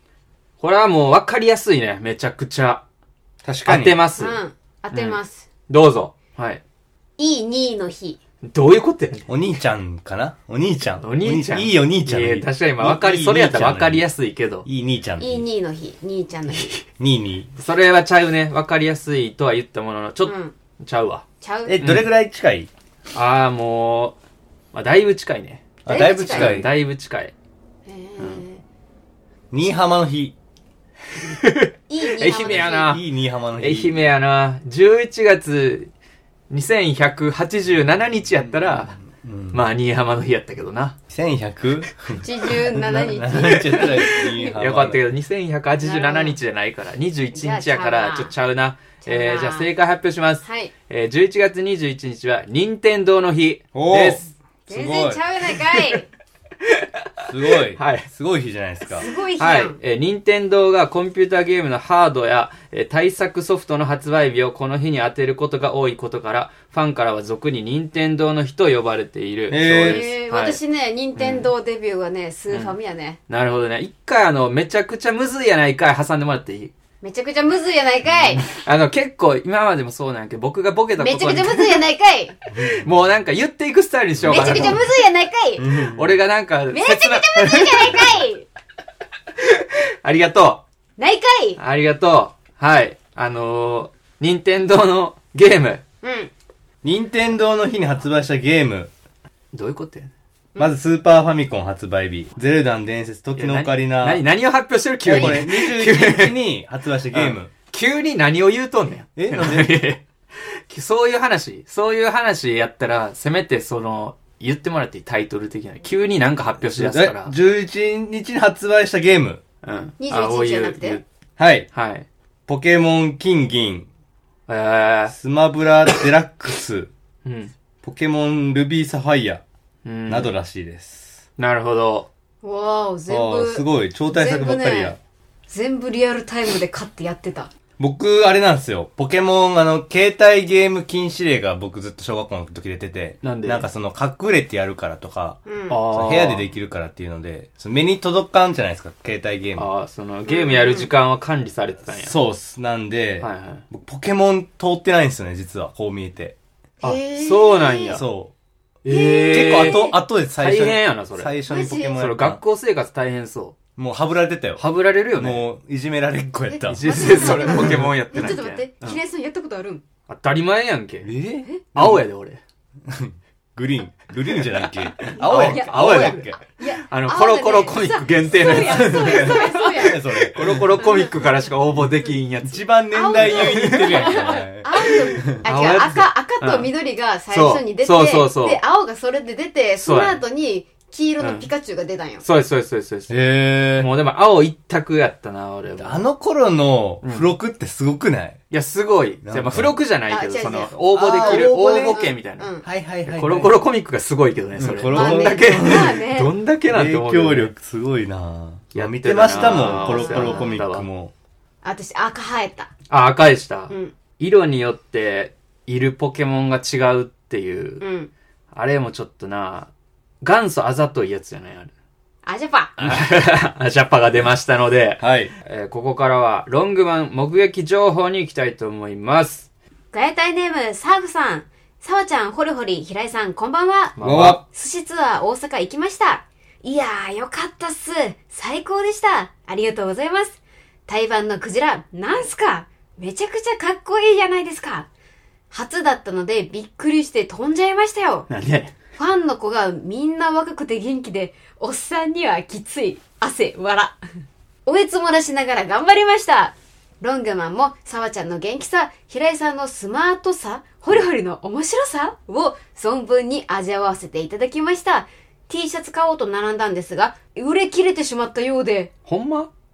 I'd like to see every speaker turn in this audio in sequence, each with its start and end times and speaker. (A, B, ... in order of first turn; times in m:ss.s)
0:00.6-0:02.8 A
0:03.4-0:04.0 B
0:03.6-0:04.4 A
0:04.2-0:05.4 C
0:04.9-0:06.6 A
0:07.2-0:08.2 C
0:08.4-0:09.3 A
0:09.3-0:14.1 B
0:11.0-0:14.7 A
0:14.6-0:15.5 B
0:15.2-0:16.7 C
0:16.5-0:16.8 A
0:17.0-0:17.5 B
0:17.6-0:21.2 A
0:20.2-0:20.5 C
0:21.4-0:21.8 C
0:21.7-0:22.7 B
0:21.8-0:22.1 A
0:23.1-0:24.2 A
0:24.7-0:27.3 A
0:25.8-0:26.7 B
0:25.9-0:26.7 C
0:27.9-0:28.6 C
0:28.2-0:28.4 A
0:29.5-0:30.3 B
0:31.2-0:33.0 A
0:31.9-0:33.0 C
0:32.7-0:34.0 B
0:33.6-0:35.9 A
0:36.5-0:39.0 A
0:39.2-0:39.7 B
0:39.5-0:41.0 A
0:41.1-0:45.0 B
0:42.2-0:44.6 C
0:43.5-0:54.3 A
0:45.8-0:46.4 C
0:47.3-0:48.3 C
0:49.0-0:49.7 C
0:50.4-0:50.7 C
0:53.7-0:55.2 B
0:54.7-0:56.1 C
0:56.6-0:58.1 A
0:57.3-0:59.1 B
0:58.9-0:59.8 C
0:59.0-1:10.6 A
1:09.5-1:10.0 B
1:09.8-1:13.2 C
1:11.2-1:11.5 A
1:13.3-1:16.7 A
1:17.0-1:18.5 C
1:18.4-1:21.8 A
1:21.0-1:22.4 C
1:22.5-1:24.8 A
1:24.2-1:24.8 B
1:24.3-1:25.7 C
1:25.6-1:26.2 B
1:25.7-1:28.1 A
1:26.7-1:28.5 C
1:29.4-1:30.6 A
1:31.0-1:31.6 C
1:31.6-1:35.8 A
1:36.0-1:36.3 C
1:36.8-1:38.9 B
1:39.5-1:40.1 A
1:40.6-1:44.2 B
1:43.4-1:46.4 A
1:45.1-1:45.4 C
1:45.1-1:47.5 B
1:47.1-1:50.0 A
1:49.2-1:49.7 B
1:50.7-1:57.4 A
1:56.8-1:59.4 B
1:59.6-2:01.0 A
2:00.0-2:01.0 C
2:01.4-2:01.7 B
2:01.7-2:02.1 A
2:02.5-2:03.9 B
2:04.5-2:05.1 A
2:05.1-2:06.9 B
2:07.2-2:07.5 A
2:07.8-2:09.4 B
2:09.8-2:10.3 A
2:10.1-2:11.2 B
2:11.4-2:12.1 A
2:12.4-2:15.0 C
2:13.1-2:15.0 B
2:15.5-2:17.5 C
2:17.8-2:29.7 B
2:23.2-2:23.7 A
2:25.5-2:25.8 C
2:25.7-2:26.5 A
2:29.6-2:32.2 A
2:30.3-2:30.9 C
2:31.9-2:36.4 B
2:33.2-2:33.6 A
2:36.8-2:38.0 C
2:36.8-2:38.0 A
2:37.9-2:38.3 B
2:38.8-2:41.3 A
2:38.9-2:40.0 C
2:39.3-2:42.4 B
2:41.5-2:42.0 C
2:42.0-2:43.6 A
2:43.8-2:44.6 B
2:44.6-2:45.5 A
2:45.2-2:47.9 B
2:46.5-2:49.8 C
2:46.7-2:49.0 A
2:50.1-2:51.1 A
2:51.0-2:52.0 B
2:51.7-2:52.4 A
2:52.9-2:56.4 B
2:54.4-3:06.7 A
2:55.2-3:00.0 C
2:58.6-3:00.8 B
3:00.8-3:01.1 C
3:02.5-3:05.4 B
3:02.9-3:12.2 C
3:07.3-3:08.6 A
3:09.8-3:10.2 A
3:11.2-3:11.5 A
3:12.2-3:13.2 A
3:13.1-3:13.9 B
3:13.8-3:16.0 A
3:15.8-3:18.4 B
3:17.0-3:17.3 A
3:18.5-3:22.5 A
3:19.2-3:19.8 B
3:20.1-3:22.7 C
3:20.9-3:22.0 B
3:22.6-3:23.6 B
3:23.1-3:27.5 A
3:24.6-3:26.0 B
3:24.9-3:26.3 C
3:26.7-3:31.1 B
3:28.7-3:30.9 A
3:29.3-3:30.6 C
3:31.6-3:32.7 C
3:32.9-3:37.8 A
3:37.8-3:38.1 C
3:38.5-3:39.7 A
3:40.2-3:41.7 A
3:42.2-3:42.8 C
3:42.8-3:49.5 A
3:42.8-3:43.0 B
3:45.0-3:45.3 B
3:49.9-4:04.9 C
3:54.0-3:54.4 A
3:54.0-3:54.4 B
4:05.5-4:08.3 C
4:08.3-4:08.7 A
4:09.0-4:14.0 C
4:14.7-4:28.9 C
4:29.1-4:29.5 A